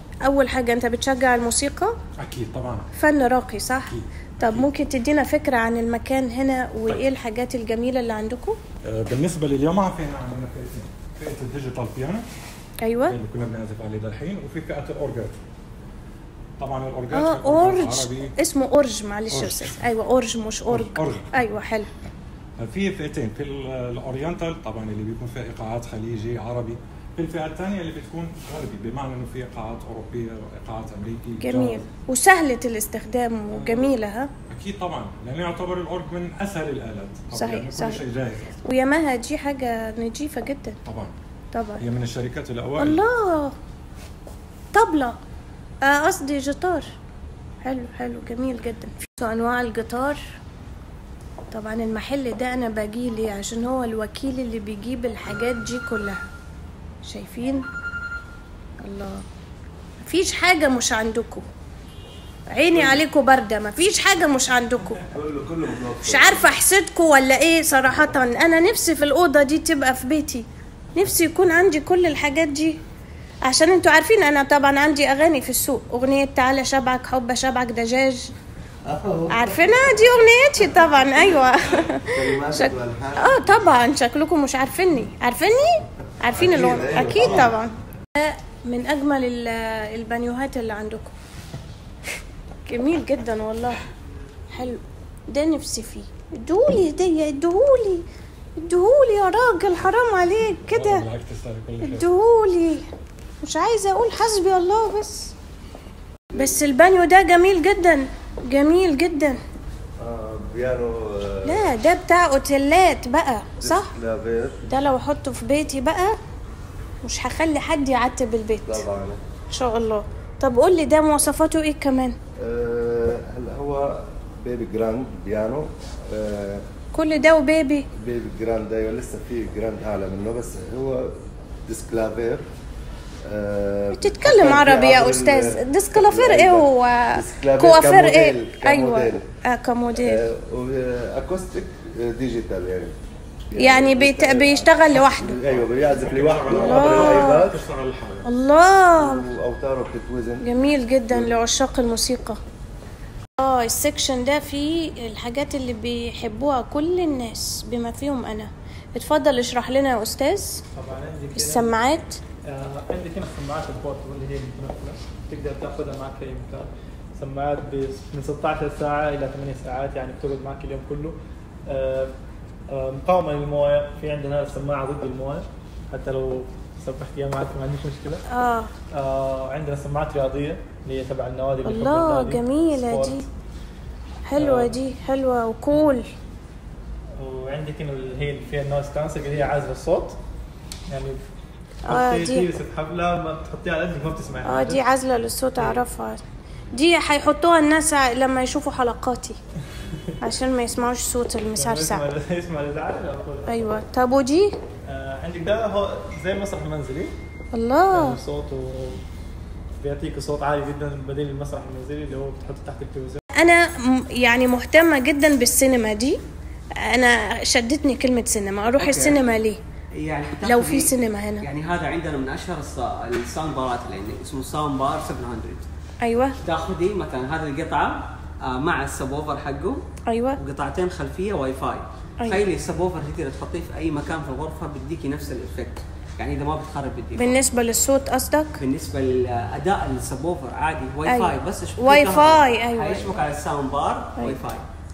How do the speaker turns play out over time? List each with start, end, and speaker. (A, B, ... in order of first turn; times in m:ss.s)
0:00.2-0:01.9 A
0:02.2-0:02.8 B
0:03.0-0:08.6 A
0:03.9-0:04.7 B
0:08.8-0:12.2 B
0:12.8-0:13.2 A
0:13.1-0:15.4 B
0:16.6-0:18.3 B
0:17.1-0:21.9 A
0:19.3-0:19.8 B
0:20.7-0:21.3 B
0:22.6-0:31.8 B
0:31.4-0:34.3 A
0:33.5-0:33.9 B
0:34.5-0:38.6 B
0:37.3-0:38.0 A
0:38.6-0:40.8 A
0:40.8-0:41.1 B
0:41.5-0:41.8 A
0:41.8-0:43.0 B
0:42.8-0:43.5 A
0:44.7-0:45.1 A
0:45.8-0:46.9 A
0:47.6-0:50.2 A
0:51.5-0:56.2 A
0:57.0-0:57.6 A
0:58.8-0:59.2 A
1:00.0-1:01.4 A
1:02.5-1:05.0 A
1:05.1-1:06.4 C
1:06.0-1:12.8 A
1:13.5-1:18.3 A
1:18.8-1:19.4 C
1:19.3-1:31.1 A
1:22.1-1:23.4 C
1:26.3-1:27.6 C
1:32.6-1:33.8 A
1:34.5-1:38.0 A
1:38.6-1:41.0 A
1:40.7-1:42.0 B
1:41.8-1:42.9 A
1:43.4-1:45.3 A
1:46.3-1:49.4 A
1:50.0-1:51.7 C
1:51.4-1:53.9 A
1:53.6-1:54.6 C
1:54.6-1:56.1 A
1:57.0-1:58.8 A
1:58.7-1:59.2 C
1:59.5-2:02.2 A
2:02.4-2:06.6 C
2:06.9-2:07.9 A
2:07.9-2:12.4 C
2:13.2-2:19.2 C
2:13.9-2:20.2 A
2:20.0-2:22.9 C
2:23.5-2:27.6 C
2:23.6-2:25.4 A
2:26.0-2:28.3 B
2:26.5-2:27.5 A
2:28.2-2:29.2 A
2:29.0-2:30.4 C
2:30.4-2:32.4 A
2:33.4-2:40.6 A
2:40.7-2:41.7 D
2:41.3-2:42.2 A
2:42.4-2:51.2 D
2:51.7-2:52.1 D
2:52.7-2:58.2 D
2:58.3-2:58.7 A
2:58.9-3:03.2 D
3:01.6-3:03.2 A
3:04.2-3:06.1 A
3:04.4-3:04.8 D
3:07.2-3:10.2 D
3:10.9-3:11.3 D
3:11.8-3:12.5 A
3:11.9-3:14.8 D
3:14.4-3:16.2 A
3:16.7-3:19.4 A
3:20.2-3:22.0 A
3:21.6-3:23.5 D
3:23.5-3:24.5 A
3:24.9-3:27.1 D
3:27.5-3:28.2 A
3:27.9-3:29.0 D
3:29.8-3:33.2 D
3:33.4-3:36.2 A
3:36.8-3:39.6 A
3:38.8-3:39.2 E
3:40.0-3:45.6 E
3:40.4-3:41.4 A
3:46.0-3:46.4 A
3:46.4-3:49.8 E
3:50.1-3:50.4 A
3:50.4-3:57.4 E
3:57.2-3:58.6 A
3:58.6-4:04.6 E
4:01.0-4:03.1 A